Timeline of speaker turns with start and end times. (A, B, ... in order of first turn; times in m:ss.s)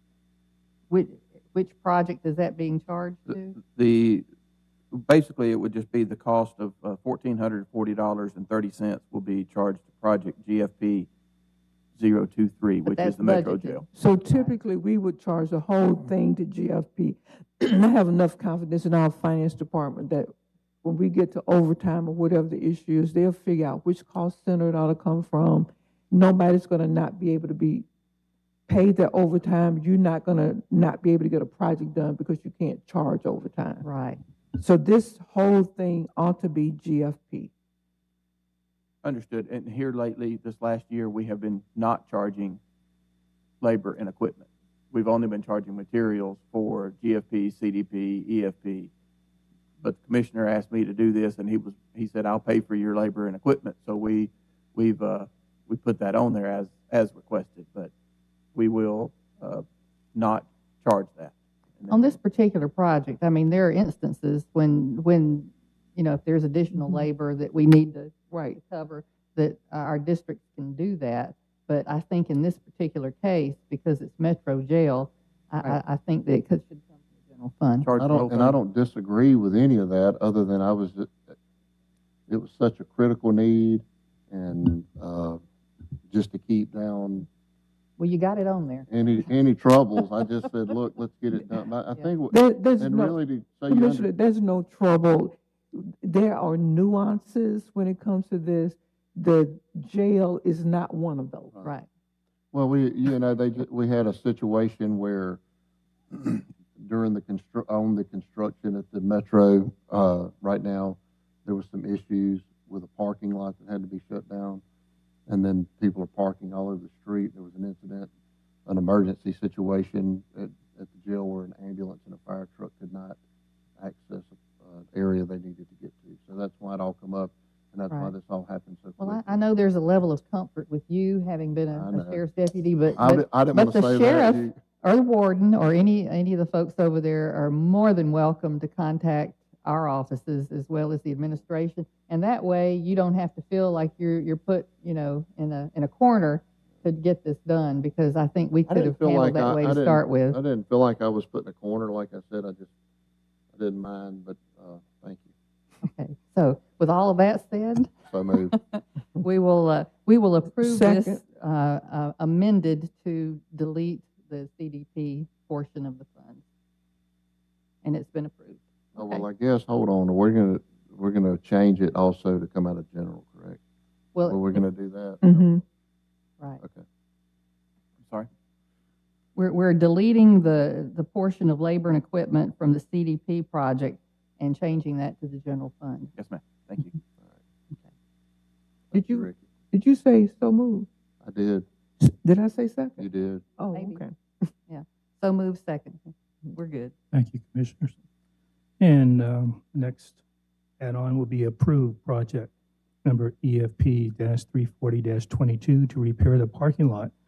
0:00.9-0:03.6 A
0:03.3-0:04.2 B
0:04.9-0:11.1 B
0:11.9-0:13.8 B
0:12.8-0:14.5 A
0:14.0-0:20.3 C
0:20.8-0:27.8 C
0:28.7-0:33.8 C
0:33.8-0:34.2 A
0:34.6-0:37.5 C
0:39.0-0:42.6 B
0:43.6-0:48.9 B
0:49.8-0:57.9 B
0:58.5-1:02.2 B
1:01.9-1:17.9 A
1:08.3-1:08.6 C
1:17.8-1:18.6 B
1:18.0-1:21.2 D
1:22.3-1:25.4 D
1:26.1-1:27.2 D
1:28.0-1:28.9 A
1:28.9-1:34.1 D
1:32.3-1:33.2 C
1:33.7-1:41.5 C
1:42.5-1:45.4 D
1:46.1-1:54.6 D
1:55.3-1:58.1 D
1:58.6-2:03.2 D
2:03.8-2:09.4 D
2:09.0-2:30.4 A
2:11.7-2:12.2 D
2:12.9-2:14.6 D
2:28.7-2:32.7 D
2:33.5-2:35.3 D
2:35.8-2:37.9 A
2:38.1-2:38.6 D
2:38.5-2:46.4 A
2:40.6-2:41.2 C
2:47.8-2:49.2 A
2:48.9-2:53.6 D
2:54.1-2:54.4 A
2:54.2-2:55.4 D
2:55.2-2:55.6 C
2:59.4-3:06.1 A
3:06.2-3:07.0 B
3:08.9-3:09.4 D
3:09.0-3:10.9 C
3:11.2-3:11.6 D
3:12.0-3:13.0 C
3:13.0-3:13.4 D
3:13.6-3:14.1 C
3:13.7-3:14.0 A
3:14.7-3:16.9 A
3:17.1-3:17.9 E
3:18.8-3:20.2 E
3:20.8-3:22.5 E
3:23.0-3:27.1 E